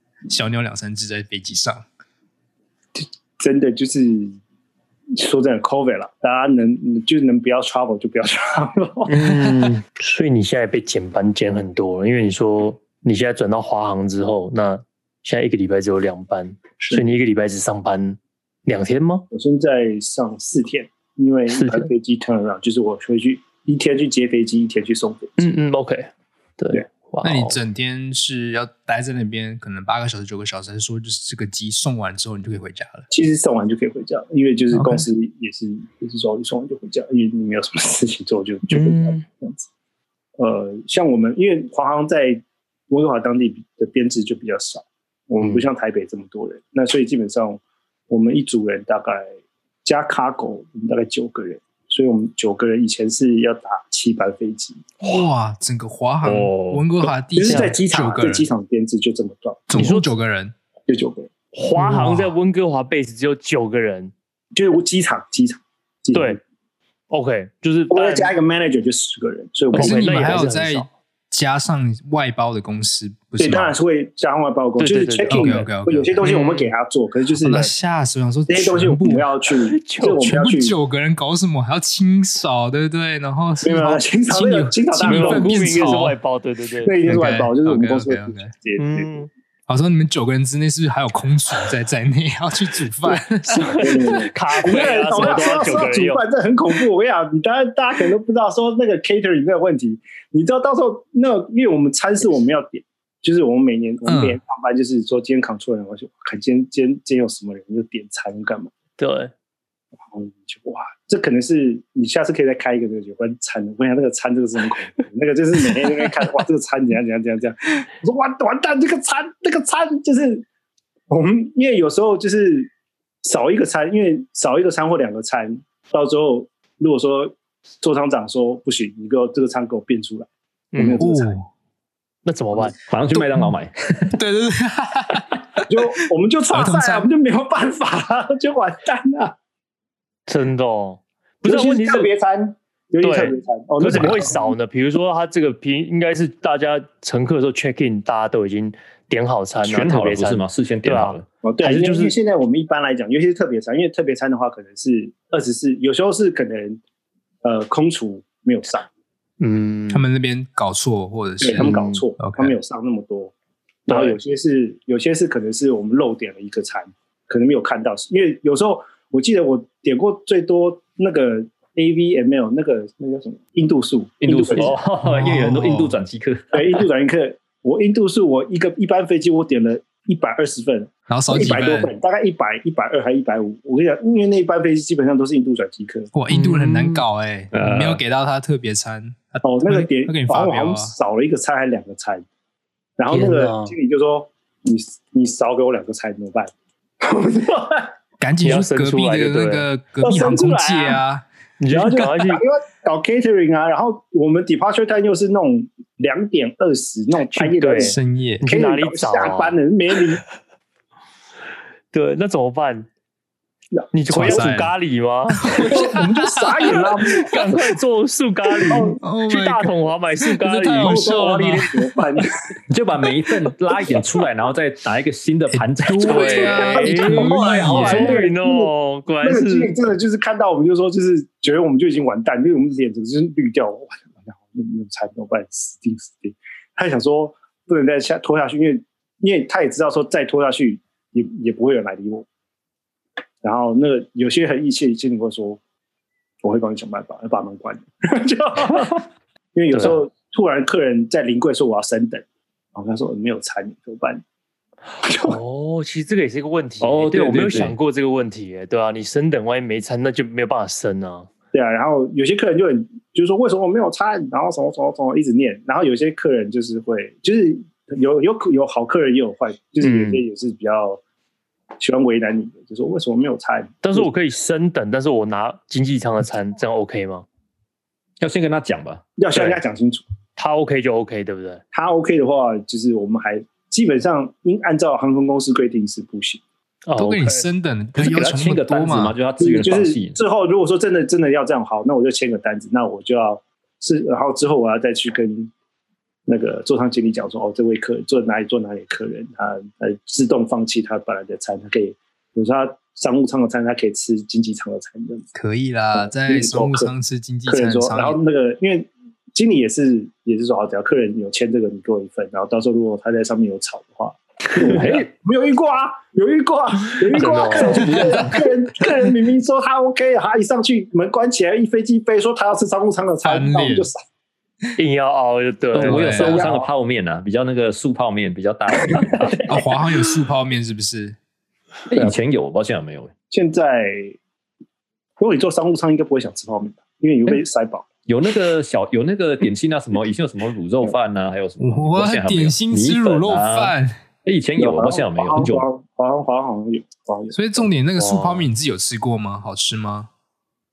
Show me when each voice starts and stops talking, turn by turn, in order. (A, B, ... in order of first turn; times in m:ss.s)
0:00.3-0:01.8 A
0:03.0-0:04.4 B
0:05.1-0:09.7 B
0:09.1-0:19.3 C
0:16.8-0:17.0 B
0:19.3-0:25.4 B
0:21.5-0:21.9 C
0:25.4-0:27.6 C
0:27.2-0:33.1 A
0:33.1-0:39.7 B
0:34.7-0:35.0 A
0:38.7-0:39.2 C
0:40.4-0:49.2 B
0:49.8-0:54.9 B
0:55.0-0:58.5 A
0:56.2-0:57.1 D
0:57.3-0:59.8 B
0:57.5-0:57.8 C
0:59.7-1:00.5 A
0:59.7-1:00.1 C
1:00.9-1:01.3 B
1:01.5-1:04.1 C
1:01.7-1:02.3 A
1:04.5-1:06.4 B
1:06.1-1:06.4 C
1:07.1-1:08.3 C
1:07.9-1:10.4 B
1:09.7-1:10.9 C
1:09.7-1:13.8 A
1:13.4-1:17.7 B
1:14.8-1:15.6 C
1:15.3-1:16.4 A
1:16.2-1:16.7 C
1:17.4-1:19.3 A
1:18.5-1:20.7 B
1:19.6-1:20.3 C
1:20.2-1:26.2 A
1:23.6-1:26.0 B
1:25.0-1:26.9 C
1:26.8-1:29.2 B
1:27.0-1:28.5 A
1:28.8-1:29.3 C
1:29.7-1:34.0 A
1:33.5-1:36.2 C
1:33.7-1:48.7 B
1:44.0-1:44.4 A
1:49.0-1:49.3 C
1:50.1-2:00.4 B
2:01.1-2:02.7 B
2:03.2-2:11.4 B
2:10.7-2:11.0 C
2:11.0-2:11.5 A
2:12.2-2:12.7 C
2:12.9-2:14.2 D
2:13.2-2:13.5 A
2:14.1-2:15.6 A
2:15.7-2:19.3 B
2:16.5-2:17.1 A
2:20.3-2:22.1 C
2:21.4-2:24.5 B
2:23.0-2:32.1 C
2:29.6-2:31.3 D
2:31.4-2:36.8 B
2:37.4-2:38.9 B
2:39.4-2:40.0 C
2:39.9-2:42.6 A
2:41.4-2:43.3 B
2:41.6-2:42.0 C
2:43.9-2:54.8 B
2:43.9-2:44.2 C
2:54.2-2:56.8 D
2:55.0-2:56.0 A
2:56.5-3:06.1 B
3:01.1-3:01.9 A
3:06.1-3:10.9 A
3:06.3-3:07.0 C
3:07.5-3:08.0 D
3:09.4-3:12.2 B
3:13.0-3:17.9 B
3:13.1-3:13.7 C
3:18.2-3:21.2 A
3:18.4-3:19.7 C
3:20.0-3:21.0 B
3:21.6-3:22.4 C
3:21.7-3:30.2 B
3:27.3-3:29.6 C
3:27.8-3:28.4 A
3:31.9-3:32.9 C
3:33.8-3:34.4 B
3:33.9-3:35.8 C
3:34.1-3:34.7 A
3:35.4-3:37.1 A
3:35.6-3:37.5 B
3:37.1-3:41.0 C
3:38.7-3:39.0 B
3:39.0-3:42.0 A
3:40.8-3:42.3 B
3:42.7-3:47.1 D
3:45.5-3:48.2 A
3:46.0-3:49.7 C
3:46.6-4:02.3 B
4:03.4-4:05.6 B
4:06.4-4:09.0 B
4:09.5-4:12.2 B
4:12.7-4:14.2 B
4:15.0-4:15.4 B
4:15.2-4:21.3 C
4:16.8-4:17.8 D
4:21.5-4:31.0 B
4:29.8-4:30.2 C
4:31.8-4:34.1 B
4:33.8-4:37.2 C
4:38.2-4:39.0 D
4:39.2-4:40.0 B
4:39.3-4:39.6 C
4:40.4-4:41.6 C
4:41.7-4:46.4 B
4:46.8-4:47.5 C
4:47.0-4:49.2 A
4:47.9-4:50.2 D
4:49.4-4:55.5 B
4:56.3-5:05.3 B
5:05.3-5:08.2 A
5:05.9-5:06.9 B
5:07.5-5:24.0 B
5:14.6-5:14.9 C
5:14.6-5:15.1 D
5:17.1-5:18.1 C
5:17.5-5:18.3 D
5:23.2-5:23.9 A
5:24.8-5:26.2 C
5:25.7-5:29.4 D
5:25.8-5:26.4 A
5:26.1-5:26.7 B
5:28.8-5:29.6 B
5:29.4-5:31.2 A
5:31.9-5:33.1 D
5:33.3-5:34.2 B
5:35.2-5:37.9 B
5:38.1-5:43.7 D
5:41.6-5:43.9 A
5:44.2-5:45.7 D
5:44.6-5:47.7 B
5:47.3-5:50.1 A
5:48.0-5:48.5 C